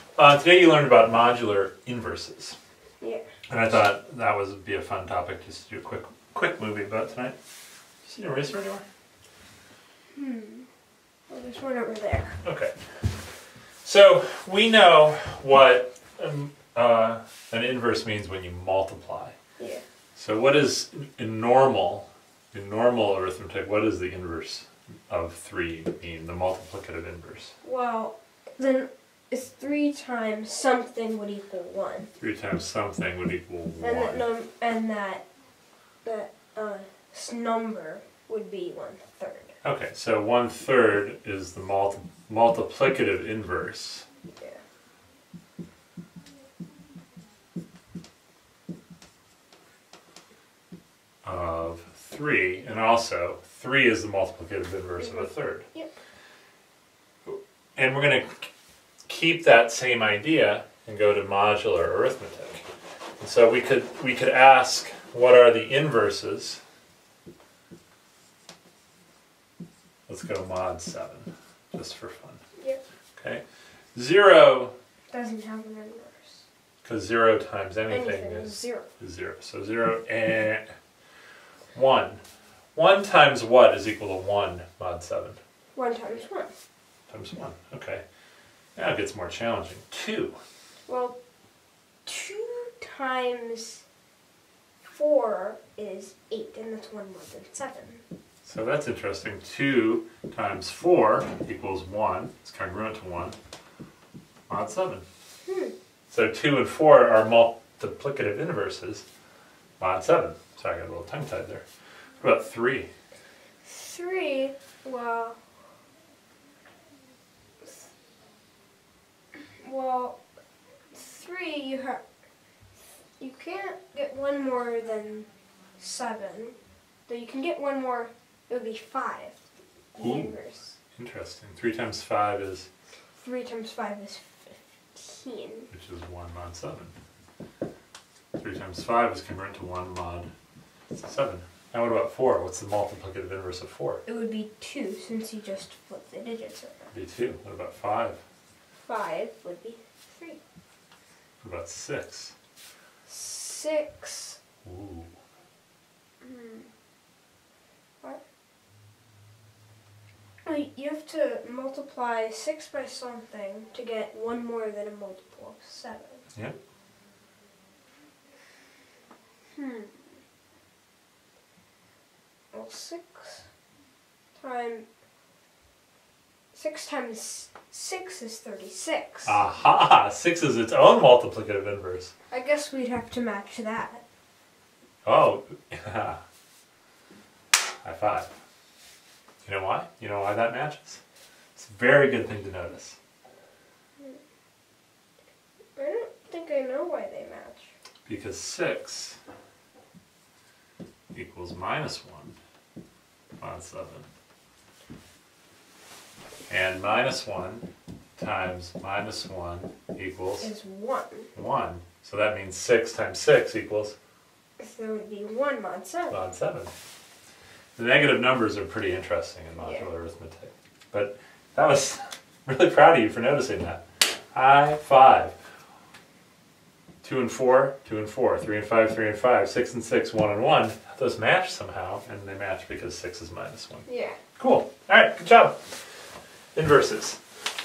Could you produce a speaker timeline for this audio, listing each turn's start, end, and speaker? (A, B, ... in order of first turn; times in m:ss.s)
0:00.2-0:02.6 A
0:03.0-0:03.2 B
0:03.5-0:07.4 A
0:08.0-0:08.8 A
0:10.1-0:10.7 B
0:11.3-0:12.4 B
0:12.4-0:12.8 A
0:13.8-0:19.3 A
0:20.2-0:27.5 A
0:27.6-0:32.1 B
0:32.2-0:34.3 A
0:33.8-0:35.2 B
0:36.0-0:39.6 B
0:39.6-0:44.0 A
0:51.2-0:55.7 A
0:55.0-0:55.9 B
0:57.2-0:58.5 A
0:59.1-1:02.6 A
1:03.2-1:06.6 A
1:10.1-1:12.4 A
1:12.6-1:12.8 B
1:13.2-1:13.4 A
1:13.9-1:14.8 A
1:15.1-1:16.4 B
1:16.8-1:20.7 A
1:17.9-1:18.9 B
1:21.8-1:22.2 A
1:22.8-1:25.4 A
1:25.8-1:26.5 B
1:27.1-1:28.0 A
1:28.8-1:30.4 A
1:30.9-1:31.2 B
1:32.0-1:33.8 B
1:34.8-1:38.0 B
1:38.4-1:43.4 A
1:44.5-1:45.0 A
1:45.4-1:45.8 B
1:46.1-1:49.0 A
1:49.8-1:51.6 A
1:52.2-1:52.9 A
1:53.6-1:55.4 B
1:59.6-2:00.2 B
2:00.9-2:02.0 B
2:03.2-2:06.6 B
2:07.1-2:09.4 B
2:09.9-2:10.8 B
2:10.0-2:10.4 A
2:10.9-2:12.7 A
2:13.2-2:15.7 B
2:15.7-2:16.9 A
2:18.4-2:20.3 A
2:21.0-2:24.0 A
2:24.1-2:26.9 B
2:26.9-2:28.2 A
2:28.8-2:30.4 B
2:31.4-2:32.3 A
2:33.1-2:34.4 B
2:34.6-2:35.1 A
2:36.2-2:36.7 B
2:40.4-2:46.3 B
2:49.6-2:50.1 B
2:52.5-2:53.5 B
2:54.4-2:54.9 B
2:56.5-2:59.4 B
2:59.2-3:02.1 A
3:02.3-3:04.0 B
3:05.0-3:06.2 A
3:07.8-3:08.3 A
3:09.4-3:11.0 A
3:11.6-3:13.0 A
3:15.8-3:17.7 B
3:18.1-3:19.2 A
3:21.1-3:22.4 A
3:23.4-3:24.1 A
3:26.5-3:27.6 A
3:28.2-3:30.5 A
3:30.4-3:31.3 B
3:31.3-3:34.0 A
3:34.6-3:36.3 B
3:36.1-3:36.7 A
3:37.8-3:45.4 A
3:39.6-3:39.9 B
3:47.0-3:53.9 A
3:53.9-3:54.2 B
3:54.4-3:55.6 A
3:56.6-3:57.2 A